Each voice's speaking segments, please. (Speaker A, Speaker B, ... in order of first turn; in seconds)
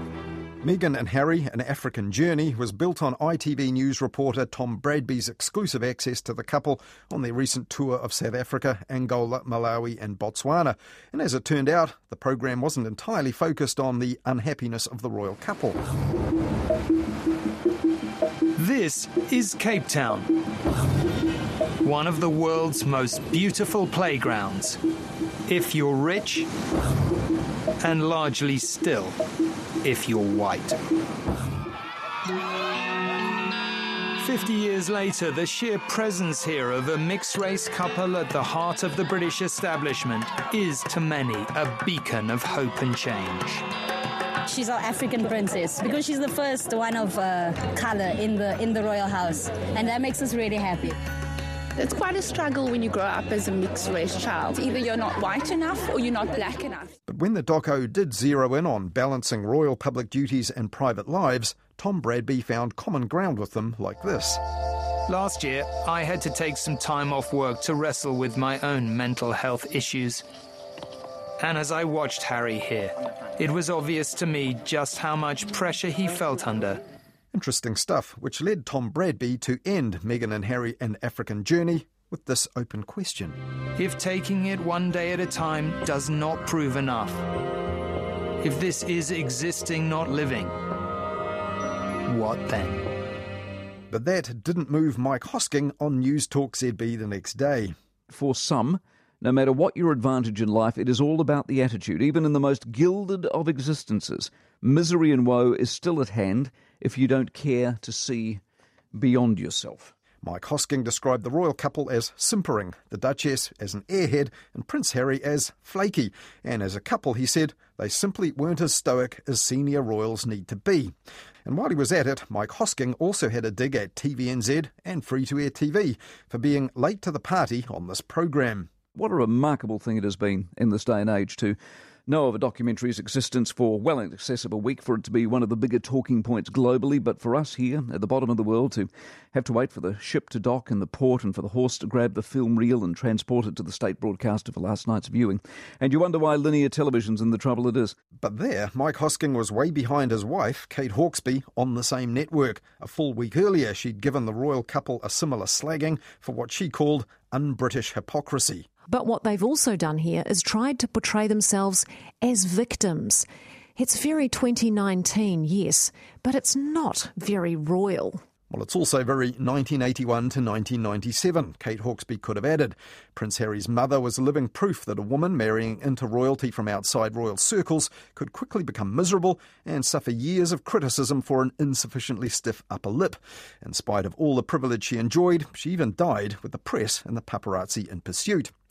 Speaker A: 0.6-15.8, 57.1-64.4, 77.3-83.4, 93.9-97.7, 110.2-120.9, 121.5-128.7, 148.2-158.7, 168.5-188.5
Speaker B: 18.6-20.3, 21.8-24.8, 25.5-26.5, 27.8-29.2, 29.8-30.8, 34.2-43.6, 65.1-70.2, 71.4-76.8, 83.8-87.2, 88.4-90.5, 92.1-92.8
Speaker C: 44.5-51.0
Speaker D: 51.8-56.9
Speaker E: 98.1-108.4, 109.0-109.9, 128.9-148.0
Speaker F: 158.9-162.5, 163.8-168.2